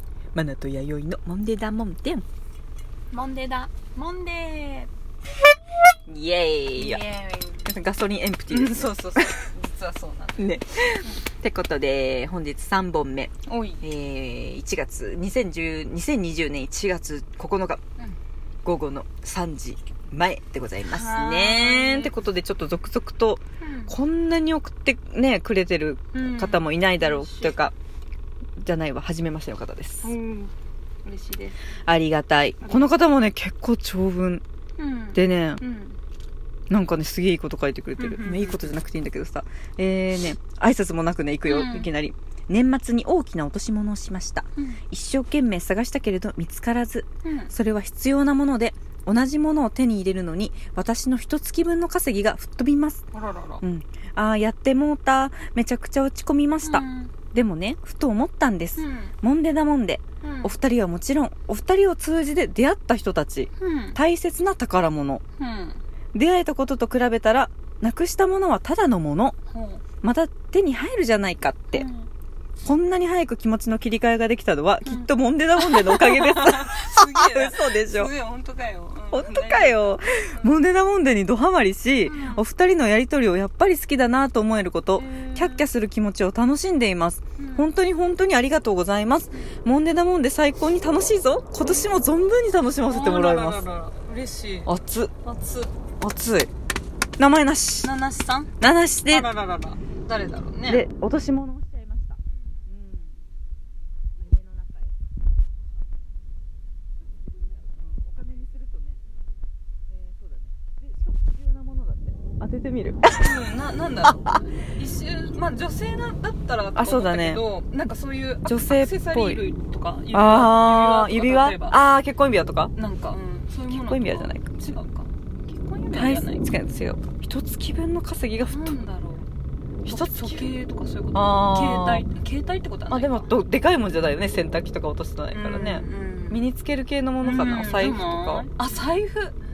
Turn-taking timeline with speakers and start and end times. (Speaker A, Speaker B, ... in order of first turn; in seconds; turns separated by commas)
Speaker A: 0.3-2.2, Speaker B: 3.1-4.9, Speaker A: 6.1-7.0, Speaker B: 6.7-7.7, Speaker A: 7.7-9.5, Speaker B: 8.5-10.5, Speaker A: 10.4-17.8, Speaker B: 13.4-13.8, Speaker A: 18.6-27.7, Speaker B: 20.8-22.1, Speaker B: 23.6-23.9, Speaker B: 26.1-27.6, Speaker A: 28.6-30.1, Speaker B: 30.0-30.5, Speaker B: 31.0-31.6, Speaker A: 31.9-34.4, Speaker B: 32.6-32.9, Speaker B: 34.8-36.0, Speaker A: 35.1-35.6, Speaker A: 36.7-53.0, Speaker B: 38.0-38.7, Speaker B: 41.5-41.9, Speaker B: 47.2-47.5, Speaker B: 53.1-53.6, Speaker A: 53.6-65.2, Speaker B: 56.6-57.1, Speaker B: 58.8-59.1, Speaker B: 60.2-60.5, Speaker B: 63.6-64.0, Speaker B: 65.4-65.8, Speaker A: 66.1-69.3, Speaker B: 69.5-69.8, Speaker A: 70.0-71.9, Speaker B: 71.7-72.1, Speaker A: 72.6-78.1, Speaker B: 74.8-80.6, Speaker A: 79.1-93.6, Speaker B: 82.0-82.5, Speaker B: 85.0-85.7, Speaker B: 87.4-87.7, Speaker B: 92.8-94.7, Speaker A: 94.7-95.1, Speaker B: 95.2-95.7, Speaker A: 96.0-96.5, Speaker A: 97.2-97.9, Speaker B: 97.8-98.5, Speaker A: 98.6-99.3, Speaker B: 99.1-100.8, Speaker A: 100.7-103.2, Speaker B: 102.2-102.7, Speaker A: 104.2-105.0, Speaker A: 107.4-109.0, Speaker A: 109.9-113.4, Speaker B: 113.1-121.8, Speaker A: 114.0-114.4, Speaker A: 116.7-117.4, Speaker A: 118.5-119.4, Speaker A: 120.1-122.7, Speaker B: 122.8-126.5, Speaker A: 123.7-124.8, Speaker A: 125.9-128.8, Speaker B: 128.5-129.3, Speaker A: 129.8-130.6, Speaker B: 129.8-133.3, Speaker A: 131.1-132.1, Speaker A: 132.9-138.5, Speaker B: 135.3-136.4, Speaker B: 137.2-139.3